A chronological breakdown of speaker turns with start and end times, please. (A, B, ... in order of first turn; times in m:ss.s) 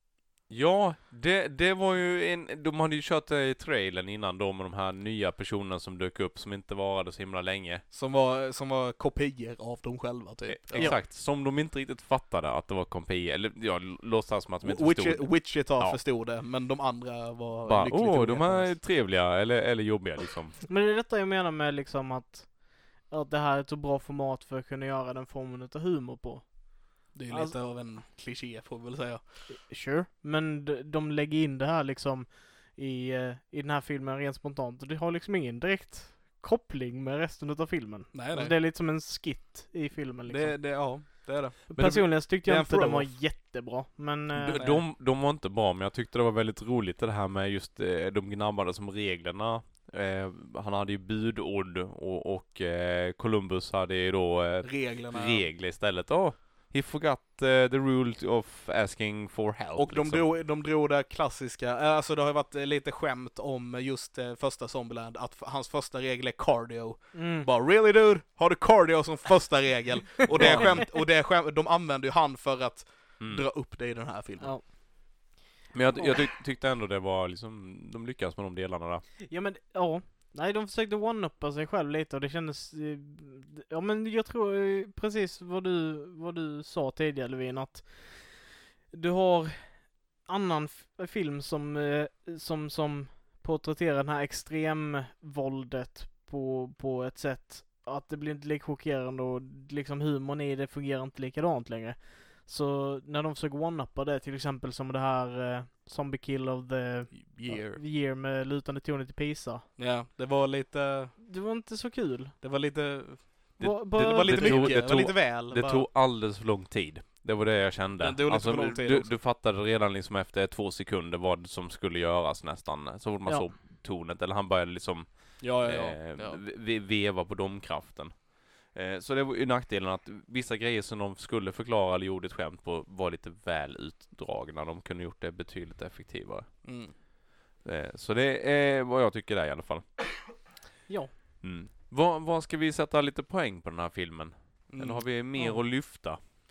0:00.5-0:07.8 A
0:07.9-0:11.0 B
0:10.5-0:16.0 A
0:10.7-0:11.0 C
0:14.6-0:18.8 B
0:17.6-0:20.6 A
0:20.7-0:27.6 C
0:27.1-0:29.5 B
0:29.5-0:40.7 C
0:38.1-0:38.5 B
0:40.2-0:43.1 B
0:41.7-0:44.6 C
0:44.3-1:00.3 A
0:44.6-0:44.8 B
0:54.6-0:55.5 B
0:59.8-1:14.6 B
1:07.1-1:07.5 C
1:10.3-1:10.9 C
1:10.4-1:10.8 A
1:13.2-1:13.4 A
1:14.4-1:15.4 C
1:15.7-1:19.0 A
1:19.2-1:49.7 C
1:47.1-1:47.8 B
1:49.8-1:51.2 B
1:51.2-1:52.4 C
1:52.4-1:55.9 B
1:53.6-2:17.0 A
1:53.6-1:54.8 C
1:58.0-1:59.1 B
2:05.4-2:06.4 B
2:16.6-2:16.9 B
2:17.6-2:20.4 A
2:20.9-2:21.1 C
2:21.4-2:26.2 A
2:24.7-2:25.1 B
2:25.4-2:25.6 C